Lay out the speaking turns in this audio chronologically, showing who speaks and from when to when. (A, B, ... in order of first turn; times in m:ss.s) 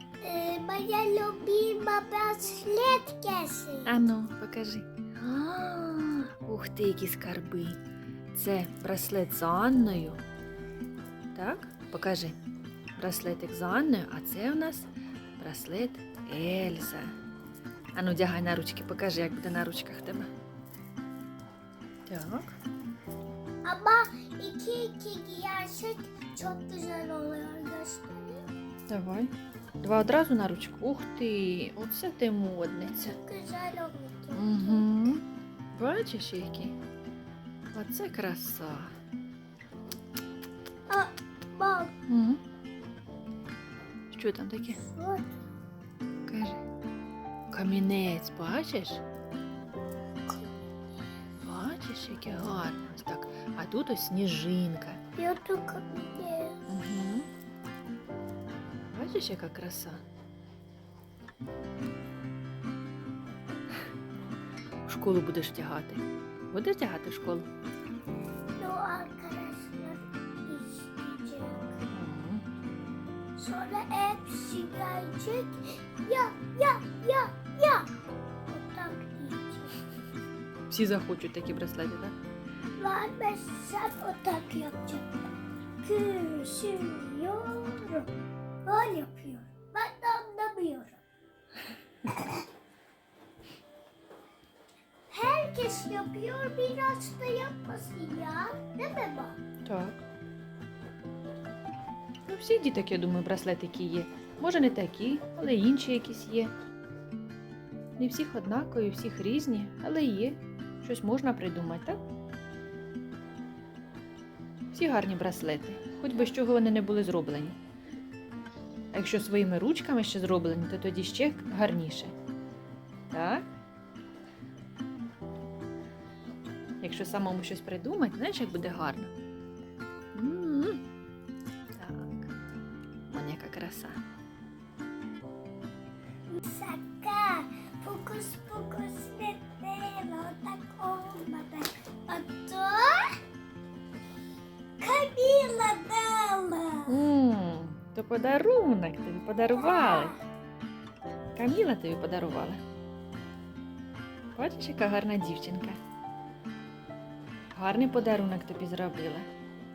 0:00.2-0:04.0 A
0:03.8-0:07.8 B
0:08.3-0:10.2 B
0:11.3-0:12.4 B
0:13.0-0:17.1 B
0:17.9-0:20.3 B
0:22.1-0:22.5 B
0:23.6-0:28.4 A
0:28.9-0:33.1 B
0:32.9-0:34.9 A
0:34.3-0:35.2 B
0:35.7-0:36.8 B
0:37.7-0:38.9 B
0:40.9-0:41.9 A
0:42.1-0:42.4 B
0:44.1-0:44.8 B
0:44.7-0:45.3 A
0:46.3-0:46.6 B
0:47.5-0:49.0 B
0:50.3-0:50.5 A
0:51.4-0:55.0 B
0:55.2-0:56.7 A
0:56.7-0:57.3 B
0:58.9-1:00.0 B
1:04.8-1:07.4 B
1:08.6-1:11.8 A
1:11.9-1:12.4 B
1:13.4-1:17.9 A
1:18.5-1:19.8 A
1:20.7-1:22.1 B
1:22.8-1:25.1 A
1:25.8-1:28.1 A
1:28.6-1:31.0 A
1:32.0-1:32.4 A
1:35.1-1:39.4 A
1:39.6-1:40.0 B
1:42.3-1:46.5 B
1:48.0-1:52.0 B
1:54.7-1:57.6 B
1:58.9-2:02.1 B
2:03.1-2:03.4 B
2:06.8-2:09.1 B
2:10.1-2:10.8 B
2:11.7-2:12.3 B
2:13.1-2:14.0 B
2:16.3-2:23.2 A
2:24.8-2:27.0 A
2:26.9-2:30.2 B
2:29.5-2:30.2 A
2:31.3-2:32.6 B
2:34.4-2:35.8 B
2:37.5-2:39.3 B